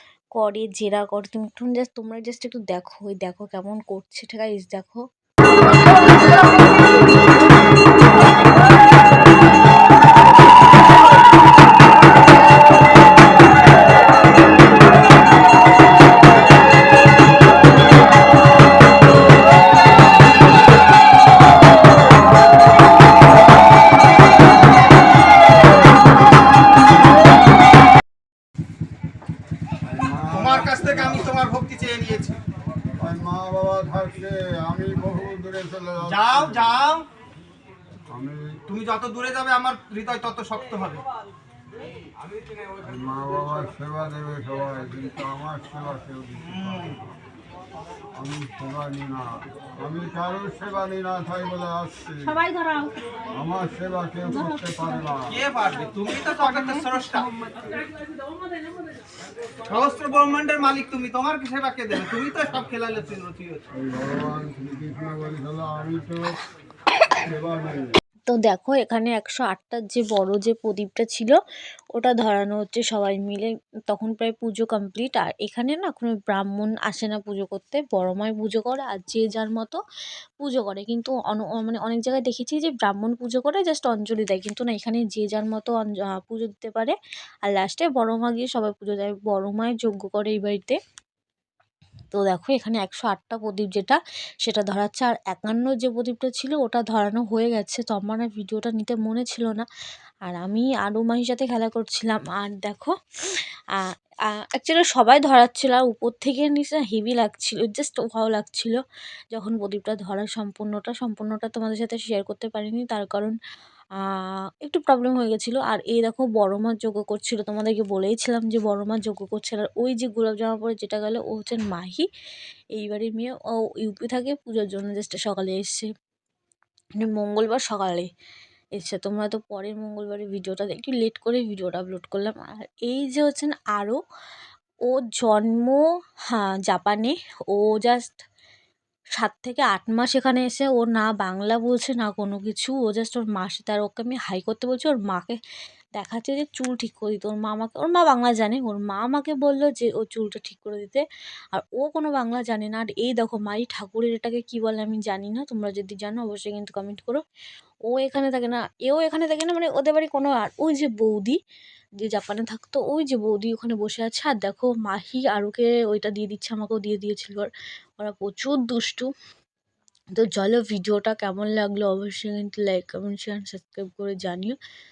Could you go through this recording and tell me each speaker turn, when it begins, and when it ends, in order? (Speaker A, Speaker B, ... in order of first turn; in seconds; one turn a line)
Speaker A: 0.4-5.0
Speaker B: 29.9-31.3
Speaker C: 30.3-32.4
Speaker B: 33.0-36.7
Speaker C: 36.0-37.0
Speaker B: 38.1-38.6
Speaker C: 38.7-41.0
Speaker B: 42.8-47.0
Speaker C: 46.5-47.0
Speaker B: 48.2-52.4
Speaker D: 52.2-53.0
Speaker B: 53.3-55.3
Speaker D: 54.3-55.1
Speaker C: 55.3-57.3
Speaker D: 56.5-57.6
Speaker C: 59.7-63.6
Speaker B: 63.8-66.4
Speaker B: 67.2-67.9
Speaker A: 68.3-71.4
Speaker A: 71.9-79.8
Speaker A: 80.4-86.9
Speaker A: 87.5-90.8
Speaker A: 92.1-99.7
Speaker A: 100.2-108.8
Speaker A: 109.3-113.3
Speaker A: 114.0-122.1
Speaker A: 122.8-125.9
Speaker A: 127.0-128.1
Speaker A: 128.8-134.0
Speaker A: 134.9-135.8
Speaker A: 136.3-138.2
Speaker A: 139.2-145.4
Speaker A: 146.0-157.2
Speaker A: 157.9-161.4
Speaker A: 162.0-169.1
Speaker A: 170.2-174.6